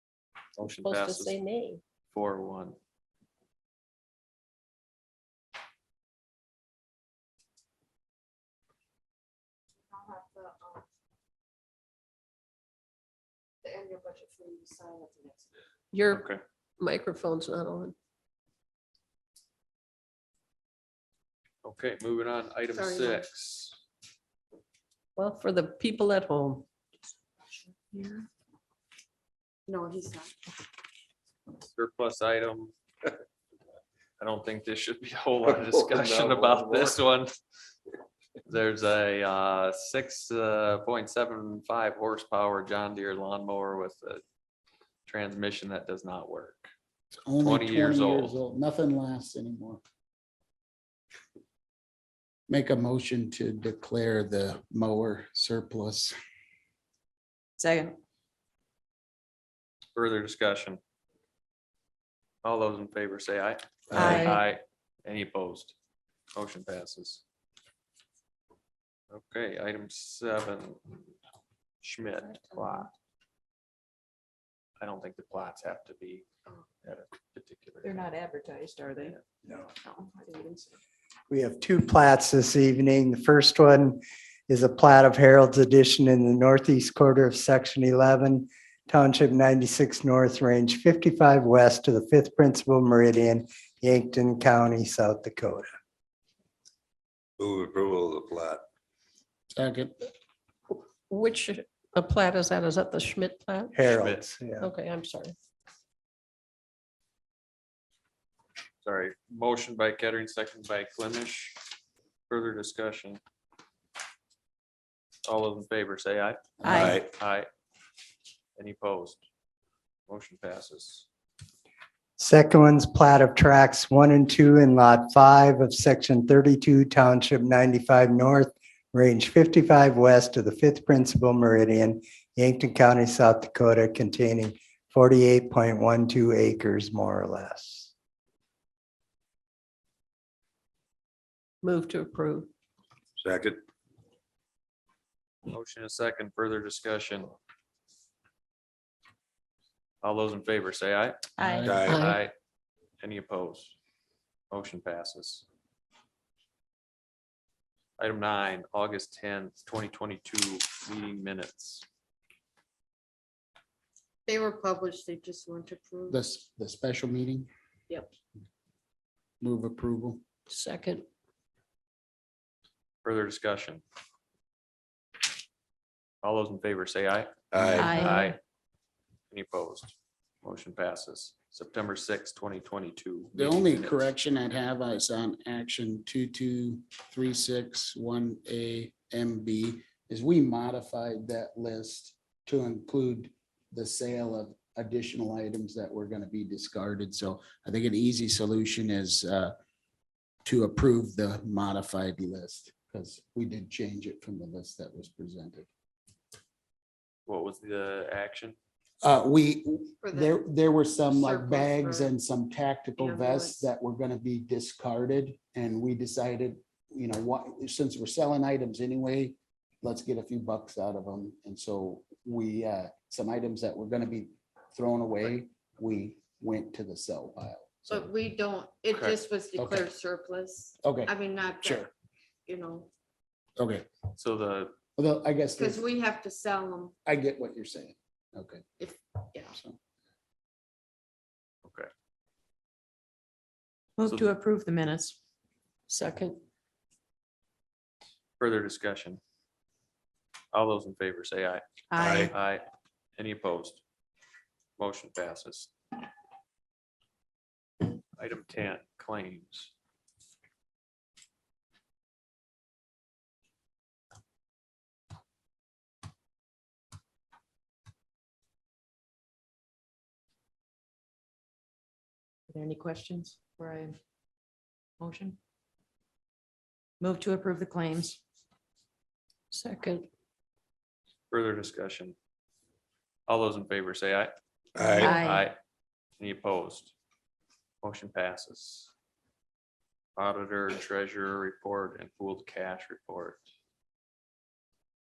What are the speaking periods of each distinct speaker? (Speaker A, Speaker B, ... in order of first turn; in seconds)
Speaker A: 0.6-1.4, 2.1-2.8, 16.1-16.4, 21.6-23.8, 31.7-32.7, 34.2-37.3, 38.5-44.2, 45.1-46.7, 47.4-48.4, 60.0-60.8, 62.4-65.7, 66.3-67.2, 69.1-70.8, 71.8-72.9, 74.8-76.2, 76.8-78.0, 103.9-104.2, 108.8-111.6, 112.3-113.2, 115.2-117.5, 118.6-119.2, 120.1-121.1, 145.5-147.3, 150.0-151.2, 151.9-152.3, 153.0-153.8, 154.5-155.4, 158.0-161.8, 173.0-173.8, 176.2-178.4, 179.3-184.1, 207.3-208.6, 228.9-229.2, 234.2-234.7, 241.7-241.9, 248.4-249.2, 250.5-251.6, 252.2-252.7, 253.2-253.8, 254.8-255.7, 258.2-259.7, 281.3-282.1, 283.3-284.3, 284.9-285.6, 286.2-286.9, 287.8-288.9, 290.2-293.4
Speaker B: 0.8-1.8, 15.9-16.2, 16.8-17.9, 25.2-26.6, 63.9-64.3, 101.1-103.7, 104.6-105.3, 116.6-117.0, 141.6-142.5, 151.4-152.2, 170.5-171.1, 177.8-178.3, 245.9-246.4, 279.5-280.1, 284.9-285.5
Speaker C: 9.9-10.8, 13.6-15.5, 22.7-23.3, 29.7-30.4, 164.3-166.2, 210.0-210.5, 211.1-212.1, 213.0-213.7, 227.8-231.9, 232.5-232.9, 235.5-237.0, 238.8-239.6
Speaker D: 35.6-37.0, 97.4-98.6, 116.7-117.1, 143.2-143.6, 151.7-152.0, 177.5-178.0, 252.0-252.3, 284.8-285.1
Speaker E: 47.1-49.8, 52.5-56.1, 99.5-100.0, 116.6-116.9, 151.4-151.9, 166.1-167.5, 169.4-170.2, 183.3-199.6, 200.4-205.7, 209.0-228.1, 229.6-229.8, 230.8-231.1, 233.6-233.9, 235.0-235.8, 237.1-238.7
Speaker F: 57.6-57.9, 77.8-79.2, 79.8-80.7, 244.0-245.2, 251.9-252.3, 272.5-274.0, 275.0-275.4, 277.0-278.2
Speaker G: 81.3-95.7, 103.7-104.7, 122.2-137.9